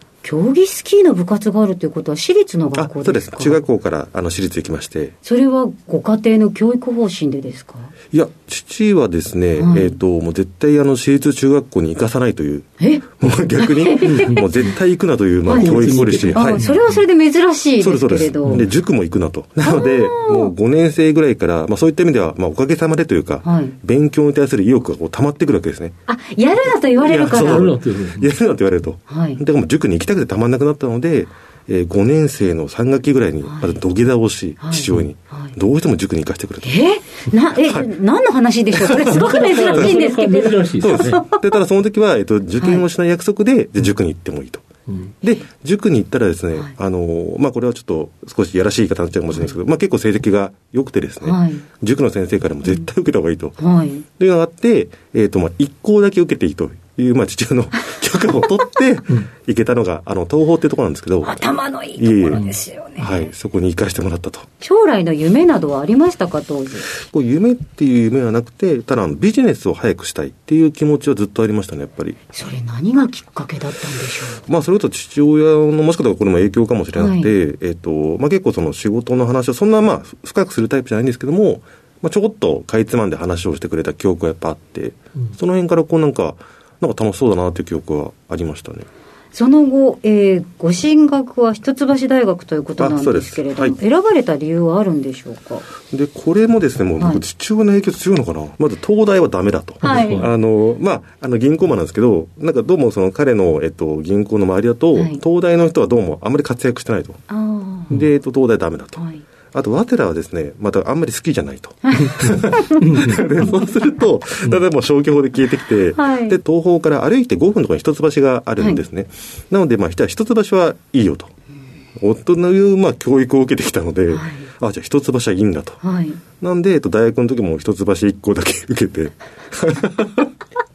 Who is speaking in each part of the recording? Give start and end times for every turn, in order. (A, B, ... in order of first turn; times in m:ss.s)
0:00.2-0:03.6 A
0:02.8-0:05.2 B
0:05.2-0:07.9 A
0:08.1-0:16.6 B
0:09.6-0:10.0 A
0:12.8-0:14.4 A
0:14.0-0:14.5 C
0:15.5-0:18.6 A
0:15.5-0:16.9 C
0:17.8-0:26.0 B
0:19.6-0:20.5 A
0:23.4-0:23.8 A
0:26.1-0:27.7 A
0:27.0-0:36.8 B
0:27.2-0:28.3 C
0:29.1-0:29.4 A
0:33.4-0:33.8 A
0:34.6-0:35.5 A
0:36.6-0:41.5 A
0:38.7-0:40.0 B
0:39.0-0:41.2 C
0:40.8-0:44.6 B
0:44.9-0:45.1 C
0:45.2-0:53.6 B
0:51.2-0:51.6 A
0:53.6-0:54.0 A
0:54.2-1:02.5 B
1:01.2-1:03.3 A
1:03.0-1:04.5 B
1:04.6-1:06.9 A
1:06.9-1:12.2 B
1:12.3-1:14.4 A
1:14.5-1:28.9 B
1:17.0-1:17.3 A
1:29.3-1:35.7 A
1:32.8-1:33.8 B
1:35.8-1:47.2 B
1:39.8-1:40.3 C
1:39.8-1:40.2 A
1:47.3-1:47.9 A
1:47.9-2:01.3 B
1:49.0-1:49.2 A
1:51.8-1:52.8 A
1:52.0-1:53.5 C
1:56.0-1:56.4 A
2:02.0-2:05.8 B
2:04.1-2:04.5 A
2:05.8-2:06.2 A
2:06.4-2:10.3 B